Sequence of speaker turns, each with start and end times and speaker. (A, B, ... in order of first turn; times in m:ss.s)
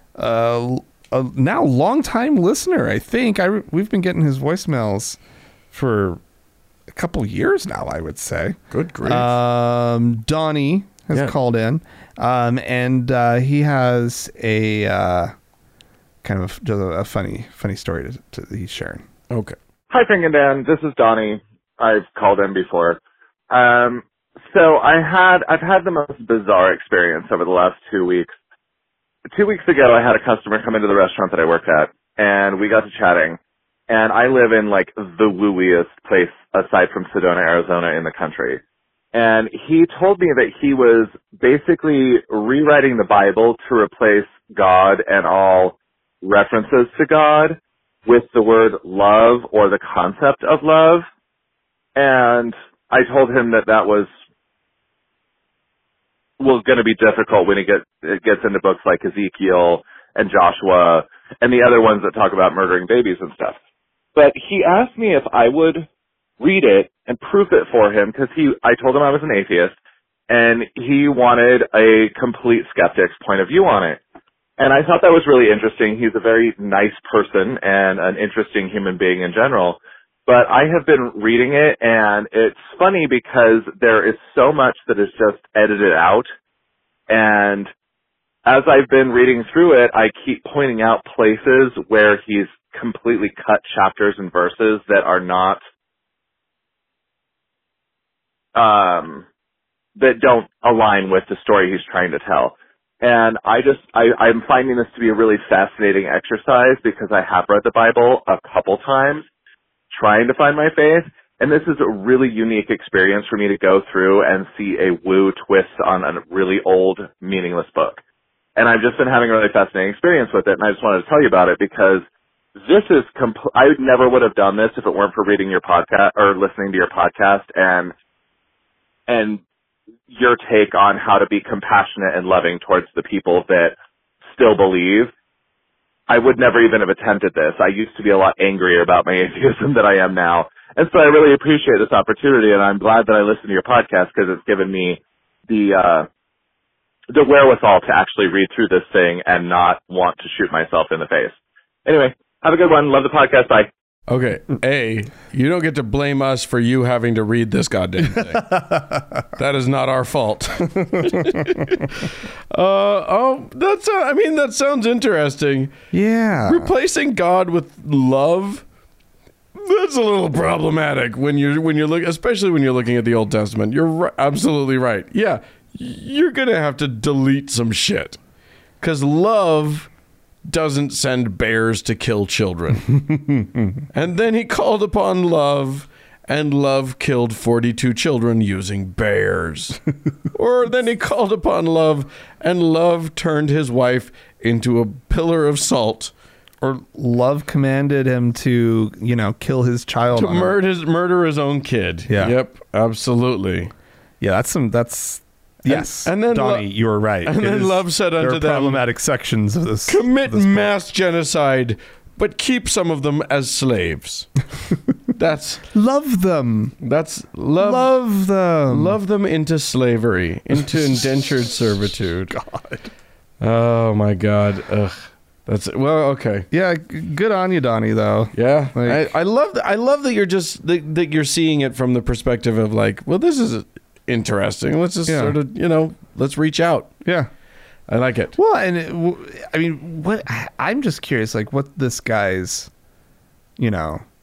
0:00.2-0:05.2 A
0:05.7-0:06.2 A
0:06.9-0:15.3 A
0:08.7-0:09.4 B
0:16.2-0:19.0 A
0:19.3-0:19.6 B
0:19.9-0:23.0 C
0:23.5-0:28.3 C
0:29.3-0:33.4 C
0:33.9-0:38.6 C
0:39.1-0:51.0 C
0:52.0-0:54.1 C
0:56.4-1:03.6 C
1:04.2-1:05.9 C
1:06.4-1:09.8 C
1:10.3-1:14.0 C
1:14.6-1:26.3 C
1:27.1-1:27.7 C
1:28.5-1:35.6 C
1:38.6-1:39.2 C
1:40.0-1:49.2 C
1:49.9-1:58.0 C
1:58.6-2:02.0 C
2:02.6-2:07.9 C
2:09.1-2:09.4 C
2:10.1-2:13.8 C
2:14.3-2:15.1 C
2:16.1-2:26.1 C
2:27.1-2:31.4 C
2:31.9-2:33.7 C
2:34.1-2:38.6 B
2:38.4-2:39.2 A
2:39.4-2:45.7 B
2:41.0-2:41.5 A
2:45.9-2:46.7 A
2:46.5-2:48.6 B
2:49.6-2:58.2 B
2:58.8-2:59.9 B
3:00.4-3:03.0 B
3:03.0-3:03.6 A
3:03.9-3:16.1 B
3:16.6-3:20.6 A
3:20.1-3:23.7 B
3:22.1-3:22.4 A
3:24.2-3:30.7 A
3:25.7-3:26.7 B
3:27.2-3:28.8 B
3:29.9-3:34.3 B
3:35.2-3:35.6 B
3:35.7-3:36.8 A
3:36.8-3:37.9 B
3:37.6-3:39.0 A
3:38.7-3:42.4 B
3:42.3-3:42.9 A
3:43.4-3:46.5 B
3:46.5-3:49.0 A
3:48.3-3:56.9 B
3:55.1-3:55.4 A
3:57.0-3:57.3 A
3:57.9-3:58.4 B
3:58.4-4:02.7 A
4:03.6-4:04.0 A